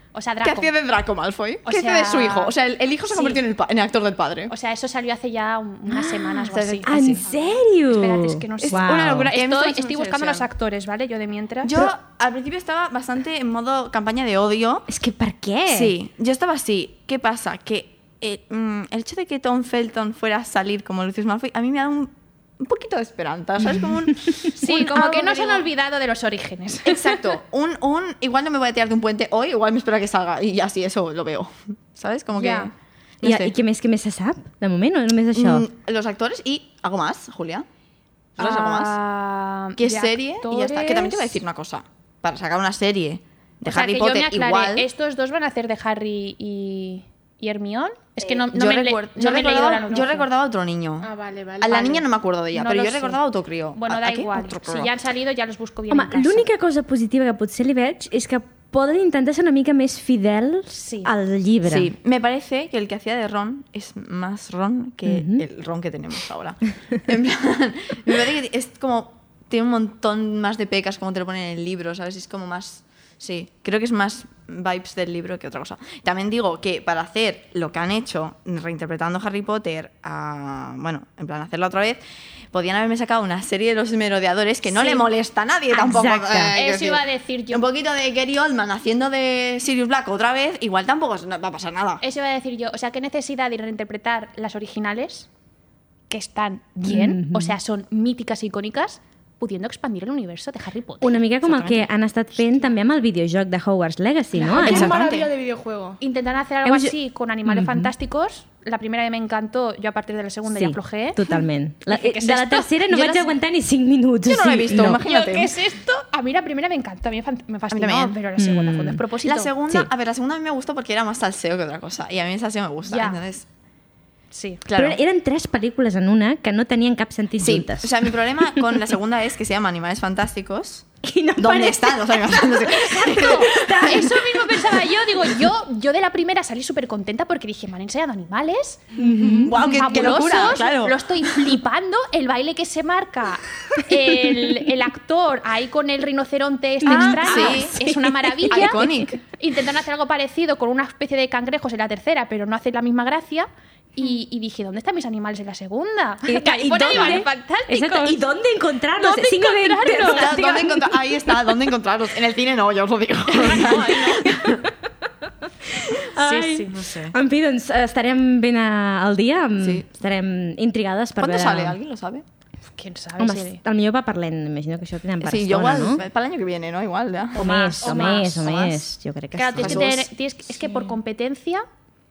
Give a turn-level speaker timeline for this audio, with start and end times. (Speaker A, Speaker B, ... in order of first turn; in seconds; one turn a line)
Speaker A: 0.1-0.7
Speaker B: 0.4-4.5
Speaker A: 1.6-2.5
Speaker A: 3.1-3.4
Speaker A: 4.5-7.1
Speaker C: 5.9-9.3
Speaker B: 6.5-7.2
Speaker A: 7.8-11.9
Speaker B: 8.6-10.5
Speaker B: 11.6-14.9
Speaker C: 14.9-15.9
Speaker B: 15.7-25.7
Speaker A: 24.6-27.3
Speaker B: 26.8-33.5
Speaker A: 32.3-32.7
Speaker C: 33.2-35.7
Speaker B: 35.3-37.6
Speaker B: 38.4-39.0
Speaker A: 38.4-41.4
Speaker B: 39.8-44.9
Speaker A: 43.6-50.3
Speaker B: 48.4-51.1
Speaker D: 51.0-52.0
Speaker B: 51.6-54.9
Speaker A: 52.5-53.2
Speaker A: 53.8-56.5
Speaker C: 55.9-61.9
Speaker A: 60.7-61.1
Speaker B: 61.6-82.0
Speaker C: 65.1-65.4
Speaker B: 82.5-92.0
Speaker A: 84.7-85.0
Speaker C: 85.7-86.5
Speaker A: 86.5-87.6
Speaker A: 92.0-95.3
Speaker A: 96.1-101.2
Speaker C: 96.8-97.5
Speaker C: 101.0-105.0
Speaker B: 101.5-101.8
Speaker D: 104.3-106.0
Speaker B: 104.6-105.3
Speaker A: 104.7-105.0
Speaker A: 106.0-111.4
Speaker C: 106.6-106.9
Speaker C: 107.4-107.9
Speaker C: 110.5-115.0
Speaker A: 111.9-112.8
Speaker B: 112.9-113.3
Speaker B: 114.2-115.5
Speaker A: 114.8-119.5
Speaker B: 117.7-118.2
Speaker C: 118.4-119.0
Speaker B: 119.2-123.5
Speaker A: 122.9-123.2
Speaker A: 124.3-124.6
Speaker B: 124.6-125.0
Speaker C: 124.7-128.6
Speaker B: 127.4-130.9
Speaker C: 131.0-134.6
Speaker B: 131.4-134.0
Speaker A: 132.7-158.2
Speaker C: 138.9-140.3
Speaker B: 139.3-141.5
Speaker C: 146.8-149.0
Speaker B: 146.8-147.8
Speaker B: 148.4-149.2
Speaker C: 156.2-161.0
Speaker A: 159.0-160.4
Speaker B: 160.1-164.6
Speaker A: 163.3-164.3
Speaker C: 164.2-164.6
Speaker C: 165.7-171.8
Speaker A: 166.2-166.8
Speaker B: 166.7-167.1
Speaker B: 169.6-169.8
Speaker B: 171.2-172.2
Speaker A: 172.7-173.6
Speaker C: 173.2-176.0
Speaker B: 175.2-178.9
Speaker C: 177.3-179.9
Speaker A: 177.4-178.3
Speaker D: 177.9-178.2
Speaker A: 179.3-181.6
Speaker B: 179.6-180.1
Speaker D: 180.6-181.0